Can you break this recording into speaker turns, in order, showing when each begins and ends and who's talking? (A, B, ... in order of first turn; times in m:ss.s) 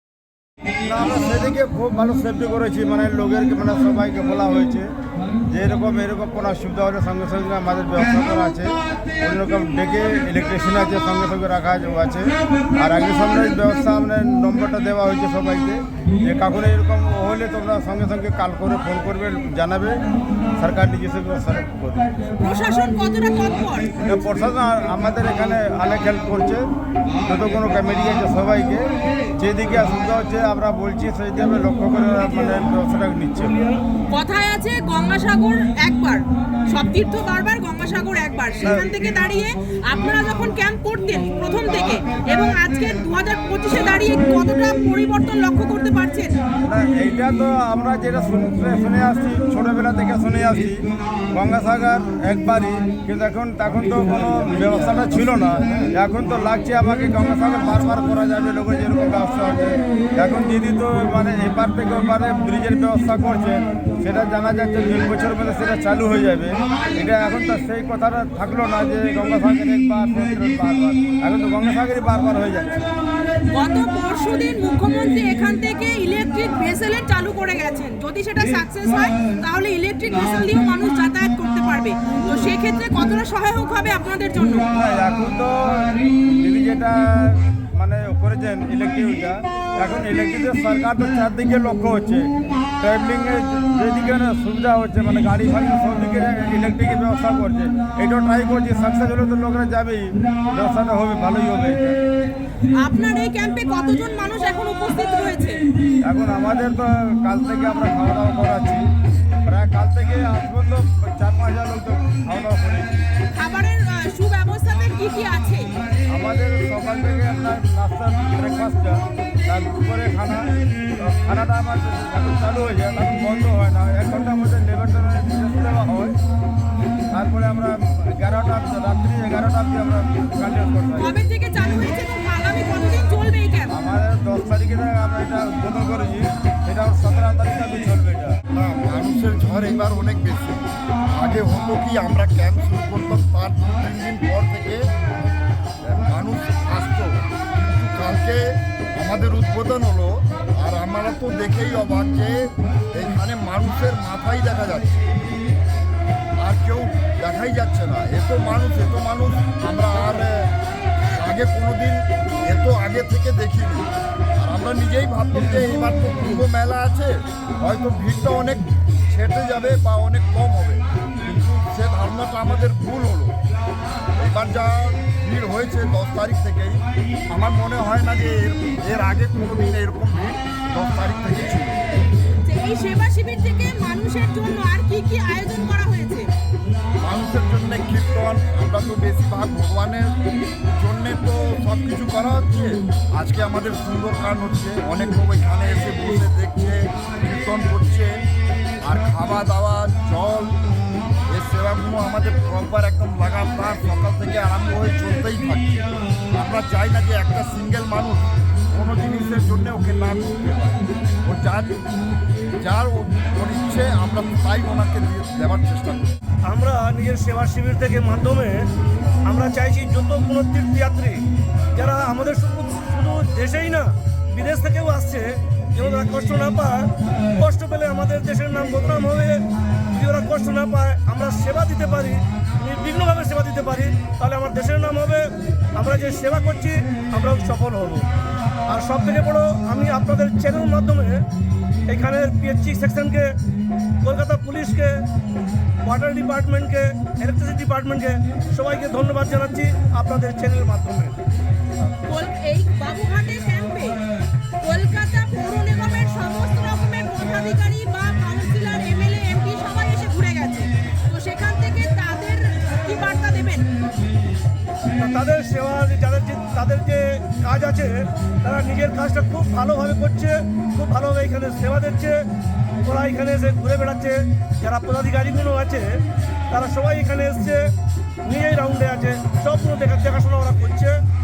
0:00.8-0:04.9 A
0:05.5-0:20.0 A
0:20.6-0:22.1 A
0:22.4-0:23.9 B
0:24.0-0:26.6 A
0:27.2-0:28.8 A
0:29.4-0:33.6 A
0:34.1-0:46.3 B
0:46.6-0:50.8 A
0:51.3-1:12.8 A
1:13.5-1:24.7 B
1:24.7-1:32.3 A
1:32.8-1:42.0 A
1:42.8-1:45.6 B
1:46.0-1:48.8 A
1:49.4-1:53.0 A
1:53.3-1:55.7 B
1:56.1-2:06.2 A
2:07.1-2:11.1 A
2:11.0-2:13.7 B
2:13.7-2:18.4 A
2:18.5-2:24.8 C
2:25.8-2:34.9 C
2:36.4-2:40.5 C
2:41.1-2:53.3 C
2:54.2-2:56.8 C
2:57.3-3:01.9 C
3:02.4-3:06.3 B
3:07.0-3:10.1 C
3:10.7-3:18.1 C
3:18.8-3:20.6 C
3:21.3-3:31.8 C
3:32.6-3:36.1 C
3:36.4-3:38.6 D
3:39.2-3:41.2 D
3:41.7-3:49.4 D
3:49.9-3:58.1 D
3:58.7-4:01.2 D
4:01.9-4:03.3 D
4:04.0-4:05.0 D
4:05.8-4:11.2 D
4:12.0-4:14.0 B
4:14.6-4:23.7 B
4:25.0-4:32.2 D
4:32.8-4:35.9 D
4:36.5-4:37.7 D
4:38.2-4:41.0 D